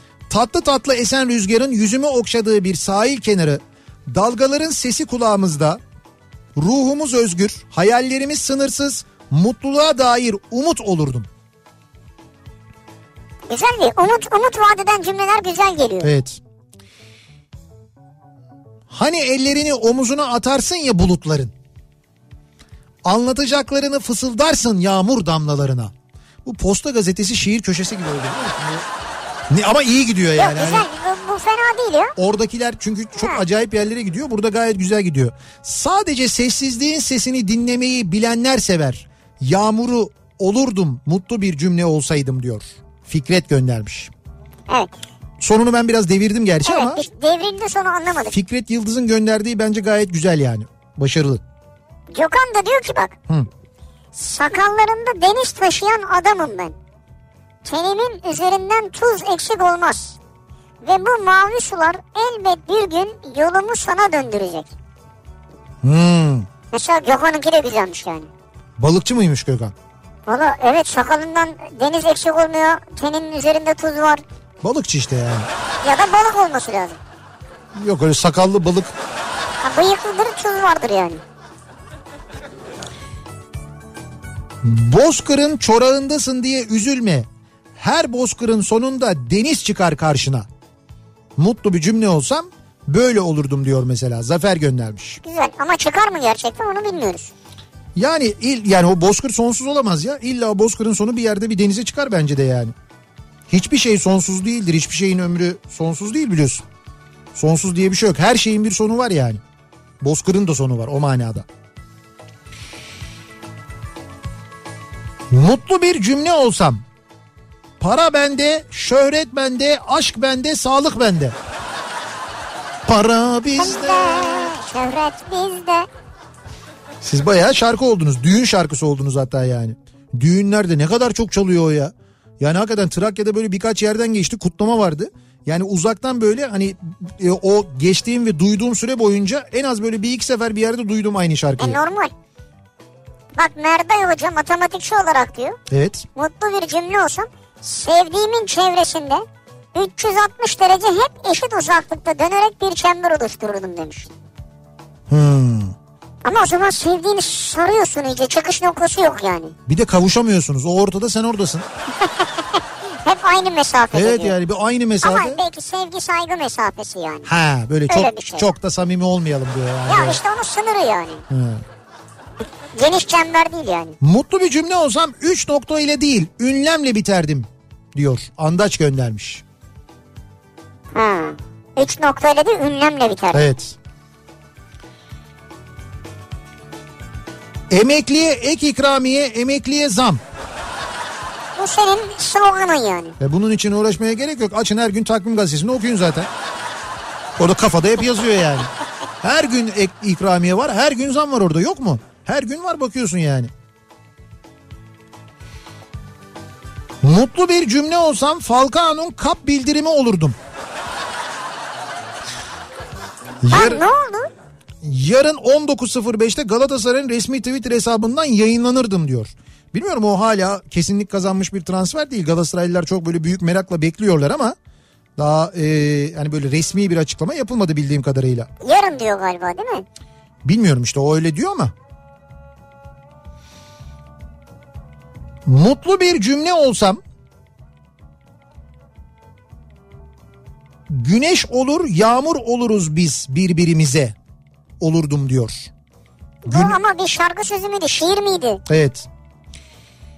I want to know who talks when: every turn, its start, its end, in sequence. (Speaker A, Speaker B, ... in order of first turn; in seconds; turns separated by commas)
Speaker A: 0.3-5.8, Speaker A: 6.5-11.3, Speaker B: 13.5-16.1, Speaker A: 16.0-16.4, Speaker A: 18.9-21.5, Speaker A: 23.0-25.9, Speaker A: 26.4-28.9, Speaker A: 29.5-30.9, Speaker B: 30.4-32.1, Speaker A: 32.1-44.1, Speaker B: 33.1-33.4, Speaker A: 45.4-47.0, Speaker B: 46.6-48.4, Speaker A: 48.3-51.4, Speaker B: 52.1-53.1, Speaker B: 54.1-56.8, Speaker B: 57.6-60.2, Speaker B: 60.8-64.7, Speaker A: 65.8-66.5, Speaker B: 66.7-68.3, Speaker A: 68.8-69.7, Speaker B: 70.3-74.2, Speaker A: 74.6-75.5, Speaker B: 75.8-77.0, Speaker A: 77.7-78.9, Speaker B: 79.6-81.2, Speaker A: 84.6-90.5, Speaker A: 91.3-95.2, Speaker B: 95.2-97.3, Speaker A: 98.0-102.7, Speaker A: 103.5-106.6, Speaker A: 107.3-109.4, Speaker A: 110.0-111.5, Speaker A: 115.3-116.8, Speaker A: 117.8-121.3, Speaker A: 122.8-124.6, Speaker B: 123.6-125.9, Speaker A: 127.0-141.8, Speaker B: 141.6-142.1, Speaker B: 143.3-145.6, Speaker A: 145.7-146.0, Speaker B: 146.1-154.1, Speaker A: 155.1-155.7, Speaker B: 156.2-159.5, Speaker A: 159.7-161.7, Speaker B: 162.2-164.3, Speaker A: 163.9-165.4, Speaker B: 165.0-167.3, Speaker A: 167.2-170.2, Speaker B: 167.9-168.5, Speaker B: 169.9-171.2, Speaker A: 171.3-171.6, Speaker B: 172.7-174.0, Speaker A: 174.0-179.4, Speaker B: 180.9-183.5, Speaker A: 183.3-183.8, Speaker A: 187.7-190.2, Speaker B: 191.6-193.2, Speaker A: 193.2-196.3, Speaker A: 197.4-198.7, Speaker A: 199.2-203.5, Speaker A: 207.0-210.4, Speaker A: 213.4-213.8, Speaker B: 213.5-214.3, Speaker A: 214.8-224.5, Speaker A: 225.2-228.5, Speaker B: 228.6-229.8, Speaker A: 230.4-231.7, Speaker A: 235.4-237.0, Speaker A: 240.9-244.1, Speaker A: 244.8-245.7, Speaker B: 246.4-248.6, Speaker A: 246.5-246.8, Speaker A: 248.7-249.1